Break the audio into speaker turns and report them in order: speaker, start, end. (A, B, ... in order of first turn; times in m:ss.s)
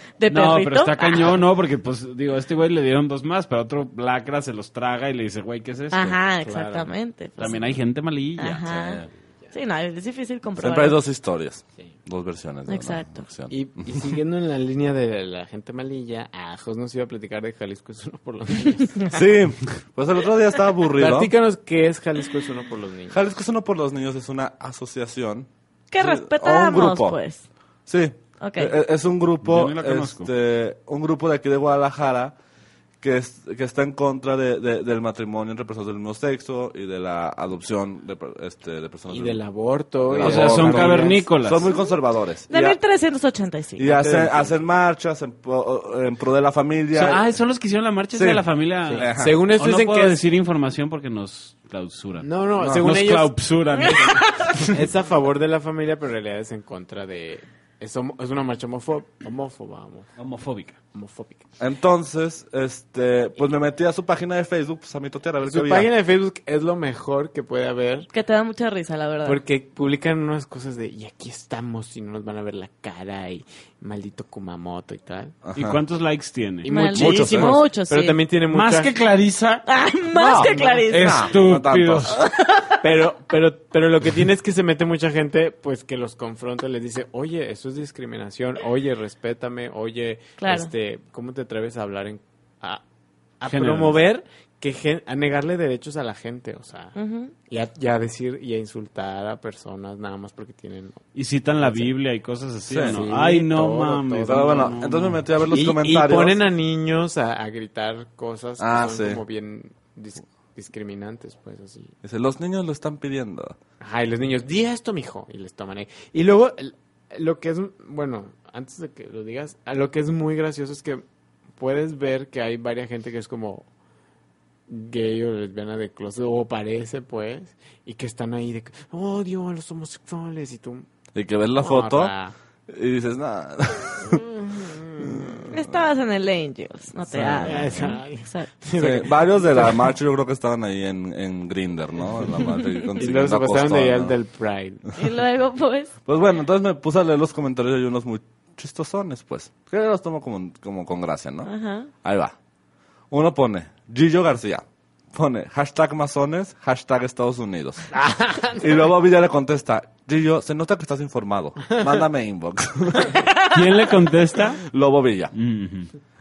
0:00.2-0:01.4 A
0:00.3-0:06.2 B
0:05.9-0:07.8 A
0:06.4-0:06.9 C
0:07.4-0:08.6 B
0:08.4-0:11.0 A
0:08.7-0:09.1 D
0:10.6-0:14.0 D
0:12.7-0:13.3 A
0:13.5-0:19.0 C
0:19.1-0:21.3 D
0:21.0-0:23.2 C
0:23.1-0:27.2 D
0:25.9-0:27.4 A
0:27.9-0:32.3 D
0:28.4-0:28.7 A
0:29.4-0:30.3 B
0:33.0-0:39.4 D
0:39.1-0:41.3 C
0:40.1-0:42.8 D
0:40.2-0:41.6 B
0:42.5-0:44.0 A
0:43.8-0:47.4 D
0:43.9-0:44.5 C
0:46.9-0:54.7 B
0:48.1-0:49.4 D
0:48.9-0:50.2 C
0:52.2-1:00.1 C
0:52.6-0:52.9 D
0:53.8-0:54.5 A
1:00.2-1:00.8 B
1:00.9-1:01.5 C
1:01.6-1:05.9 D
1:05.4-1:08.1 C
1:08.1-1:09.4 A
1:09.2-1:15.3 C
1:15.4-1:15.8 D
1:15.5-1:16.7 B
1:16.6-1:18.9 C
1:16.7-1:18.2 A
1:16.9-1:17.6 D
1:18.5-1:19.6 B
1:19.6-1:21.3 A
1:20.1-1:22.2 D
1:20.2-1:21.0 C
1:20.9-1:22.2 B
1:22.1-1:22.7 A
1:22.8-1:32.8 C
1:30.4-1:30.7 A
1:33.4-1:37.0 C
1:33.5-1:34.0 B
1:37.0-1:37.3 A
1:37.5-1:41.0 C
1:41.1-1:45.2 B
1:41.6-1:41.9 C
1:42.7-1:43.0 D
1:42.8-1:44.8 C
1:44.2-1:46.4 D
1:45.5-1:51.9 C
1:48.6-1:49.2 D
1:52.0-1:53.6 D
1:53.8-2:01.0 C
2:01.6-2:03.7 C
2:04.7-2:10.9 C
2:11.1-2:12.1 D
2:11.6-2:12.3 C
2:12.7-2:14.2 D
2:14.0-2:15.4 C
2:15.1-2:15.7 D
2:15.5-2:18.5 A
2:17.1-2:17.9 D
2:17.4-2:19.9 C
2:18.7-2:24.1 D
2:23.0-2:24.8 C
2:25.0-2:25.9 A
2:26.0-2:31.5 D
2:31.4-2:31.9 A
2:32.0-2:32.3 D
2:33.1-2:37.9 D
2:37.9-2:38.8 C
2:38.6-2:43.2 D
2:43.1-2:43.4 A
2:43.5-2:44.6 B
2:44.6-2:45.3 D
2:45.3-2:45.9 B